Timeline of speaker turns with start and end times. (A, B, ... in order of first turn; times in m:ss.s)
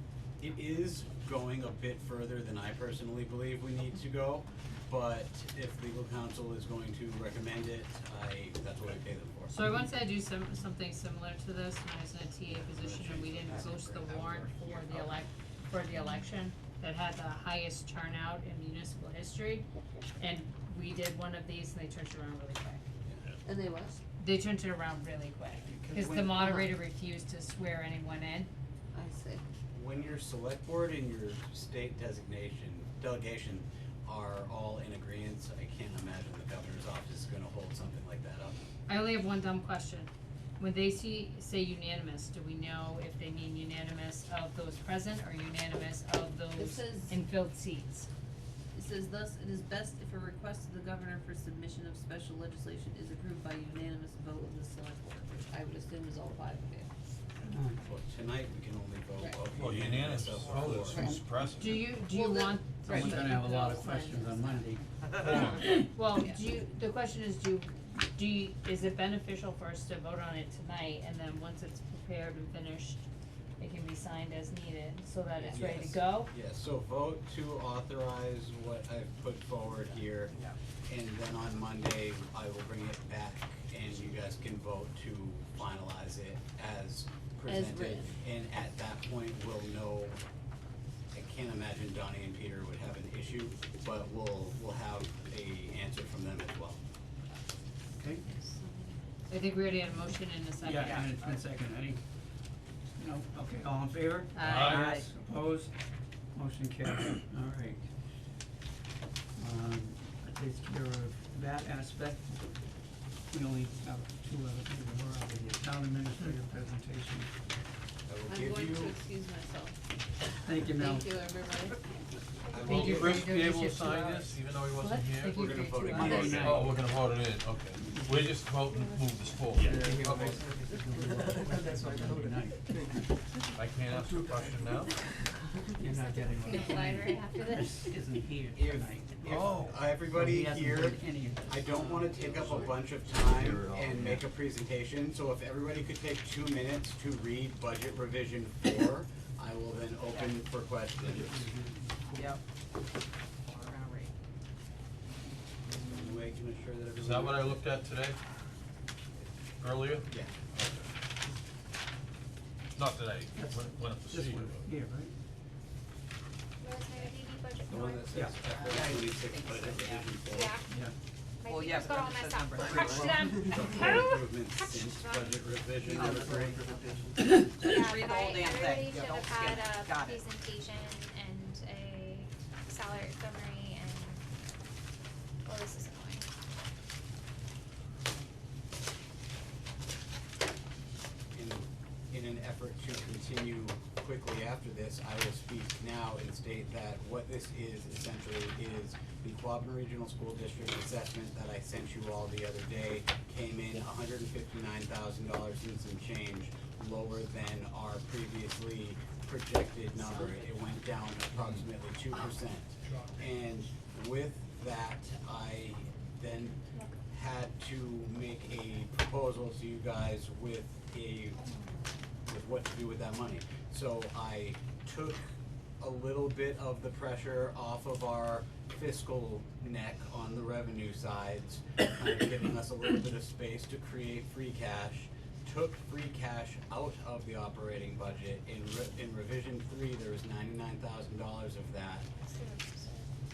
0:00.4-0:09.5 A
0:09.5-0:19.6 B
0:12.5-0:15.2 A
0:20.2-0:22.8 B
0:23.4-0:24.0 C
0:24.2-0:28.5 B
0:25.6-0:26.5 A
0:26.4-0:26.7 C
0:28.9-0:29.4 C
0:29.7-0:38.6 A
0:38.9-0:48.1 B
0:46.6-0:47.2 C
0:48.7-0:56.9 C
0:57.5-0:57.8 D
0:57.8-1:01.1 A
0:59.5-1:02.0 E
1:00.8-1:01.1 C
1:01.6-1:04.6 B
1:02.1-1:03.2 C
1:02.9-1:04.8 D
1:05.1-1:05.6 E
1:05.2-1:13.0 B
1:13.6-1:16.3 B
1:15.5-1:20.4 A
1:20.9-1:30.2 A
1:27.4-1:28.1 C
1:31.1-1:36.8 A
1:38.0-1:38.2 D
1:38.2-1:39.0 C
1:39.3-1:41.1 B
1:40.6-1:42.0 D
1:40.8-1:41.4 C
1:43.0-1:45.7 D
1:44.3-1:45.0 B
1:44.4-1:45.0 E
1:46.3-1:47.8 D
1:49.4-1:52.5 D
1:53.3-1:57.3 D
1:58.1-1:59.0 A
1:58.3-1:59.8 C
2:00.4-2:01.1 D
2:00.7-2:01.9 C
2:02.5-2:10.4 E
2:02.6-2:06.5 B
2:02.6-2:03.0 A
2:05.3-2:06.7 A
2:05.9-2:06.8 D
2:07.8-2:08.4 D
2:09.5-2:13.0 F
2:09.7-2:13.2 D
2:13.5-2:15.0 E
2:14.0-2:14.8 F
2:15.8-2:22.3 D
2:15.9-2:17.9 G
2:18.6-2:31.5 A
2:23.3-2:24.2 E
2:31.0-2:32.4 D
2:33.4-2:34.1 C
2:35.7-2:37.6 A
2:36.9-2:38.2 E
2:39.6-2:40.9 E
2:40.1-2:40.3 A
2:42.7-2:44.7 E
2:43.3-2:45.1 D
2:46.6-2:48.2 G
2:47.7-2:50.6 A
2:48.1-2:48.4 D
2:48.6-2:50.1 C
2:50.3-2:50.6 G
2:50.7-2:50.9 D
2:51.4-2:53.1 G
2:51.5-2:53.4 C
2:52.8-2:53.2 F
2:52.9-2:54.2 B
2:53.4-2:56.7 A
2:54.6-2:55.4 G
2:55.9-2:57.0 C
2:56.0-2:57.1 F
2:57.2-2:57.7 D
2:57.6-3:04.2 G
2:57.7-3:00.2 C
3:05.4-3:06.2 G
3:11.3-3:41.4 A
3:42.2-4:02.0 A
4:02.1-4:03.1 G